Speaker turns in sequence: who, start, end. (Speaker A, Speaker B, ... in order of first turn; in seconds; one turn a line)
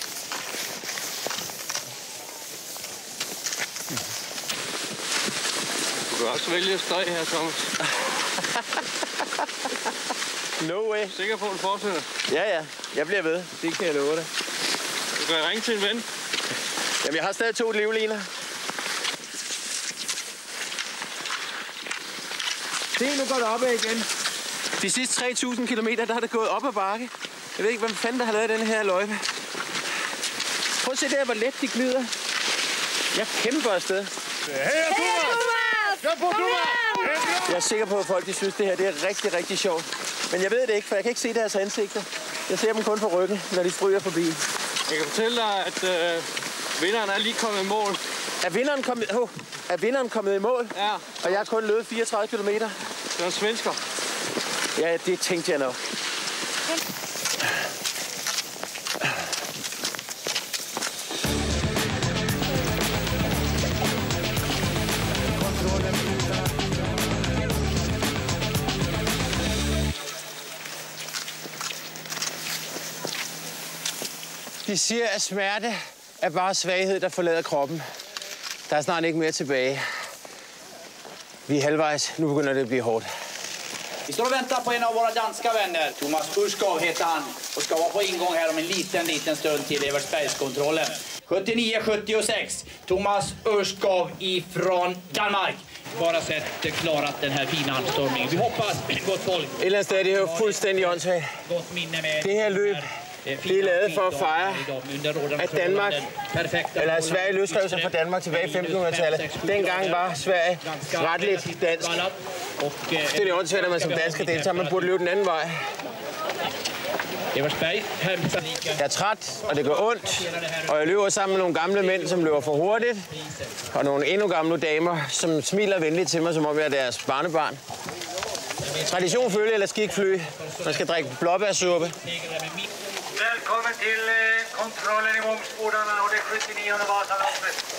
Speaker A: 6.1-7.7
Speaker B: 10.6-11.1
Speaker A: 11.1-12.1
Speaker B: 12.3-14.3
Speaker A: 15.2-16.1
Speaker B: 17.0-18.2
Speaker B: 22.9-24.1
Speaker B: 24.8-29.2
Speaker B: 30.8-32.1
Speaker B: 33.1-34.1
Speaker A: 34.5-35.4
Speaker C: 35.1-36.2
Speaker A: 36.1-37.4
Speaker B: 37.2-44.4
Speaker A: 44.9-48.0
Speaker B: 48.4-52.8
Speaker A: 50.7-51.4
Speaker A: 53.1-53.8
Speaker B: 54.7-55.8
Speaker B: 74.7-77.8
Speaker B: 78.7-79.8
Speaker B: 81.5-83.1
Speaker D: 84.1-114.9
Speaker B: 99.6-101.3
Speaker B: 102.2-102.9
Speaker B: 103.4-104.7
Speaker B: 105.4-106.1
Speaker B: 106.7-112.0
Speaker B: 113.1-115.6
Speaker D: 117.3-118.8
Speaker B: 118.8-123.1
Speaker D: 119.4-123.6
Speaker B: 123.7-127.6
Speaker D: 128.6-131.1
Speaker B: 128.8-131.9
Speaker D: 132.0-132.7
Speaker C: 133.2-137.5